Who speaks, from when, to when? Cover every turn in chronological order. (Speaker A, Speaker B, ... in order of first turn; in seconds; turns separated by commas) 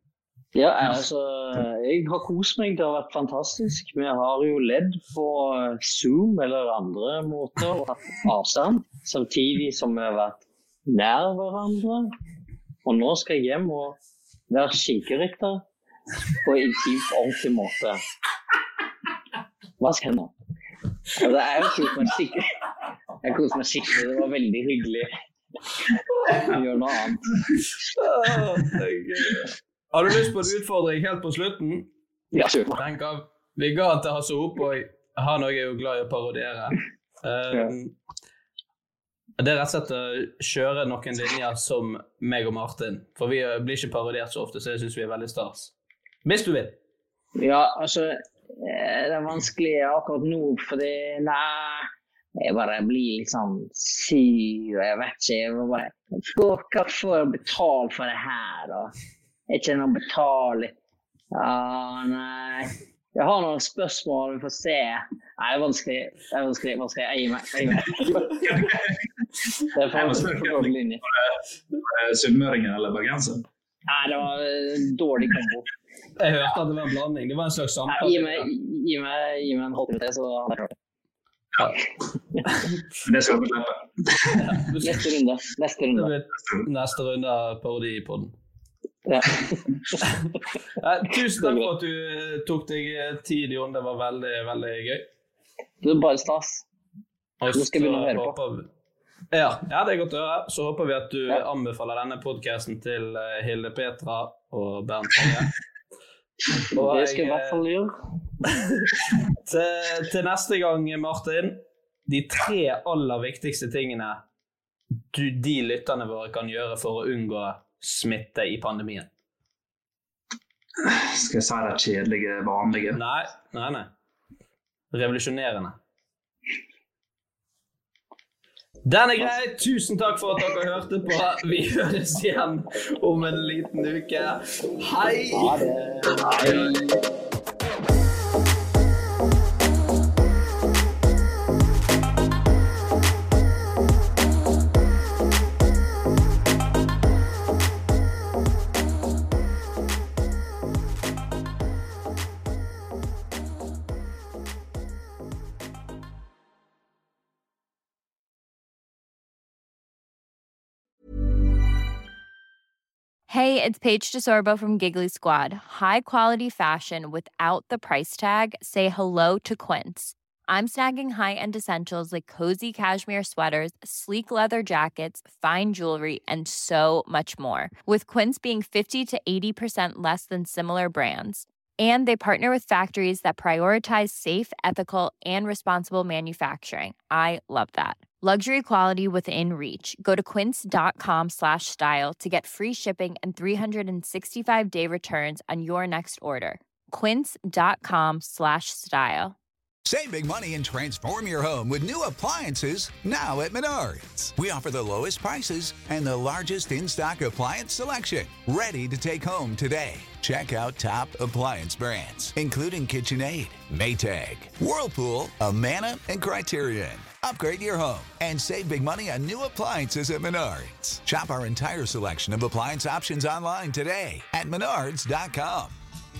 Speaker A: 0.5-12.1, Speaker A: 12.8-14.0, Speaker A: 14.5-15.6, Speaker A: 16.4-18.0, Speaker A: 19.8-20.3, Speaker A: 21.1-22.5, Speaker A: 23.2-25.1, Speaker A: 26.3-27.3, Speaker B: 27.9-31.9, Speaker A: 32.3-32.8, Speaker B: 32.7-37.9, Speaker B: 39.4-45.7, Speaker B: 46.2-46.8, Speaker A: 47.4-51.9, Speaker A: 52.4-58.9, Speaker A: 59.5-60.7, Speaker A: 61.3-68.4, Speaker C: 67.9-73.4, Speaker A: 69.7-71.0, Speaker A: 73.9-75.7, Speaker B: 76.2-78.5, Speaker A: 77.9-80.7, Speaker C: 83.0-84.6, Speaker B: 84.4-84.9, Speaker A: 84.8-86.1, Speaker B: 85.9-88.3, Speaker A: 89.0-90.0, Speaker B: 90.0-95.1, Speaker A: 91.3-91.7, Speaker A: 95.8-96.6, Speaker B: 97.4-98.7, Speaker A: 97.5-98.3, Speaker B: 99.3-105.5, Speaker B: 106.7-107.6, Speaker A: 106.8-107.9, Speaker B: 109.5-114.2, Speaker B: 115.1-119.1, Speaker C: 120.8-123.0, Speaker B: 122.9-123.9, Speaker B: 124.9-125.8, Speaker B: 128.8-135.6, Speaker A: 135.3-137.0, Speaker C: 136.2-136.7, Speaker D: 163.3-199.3, Speaker E: 199.8-225.7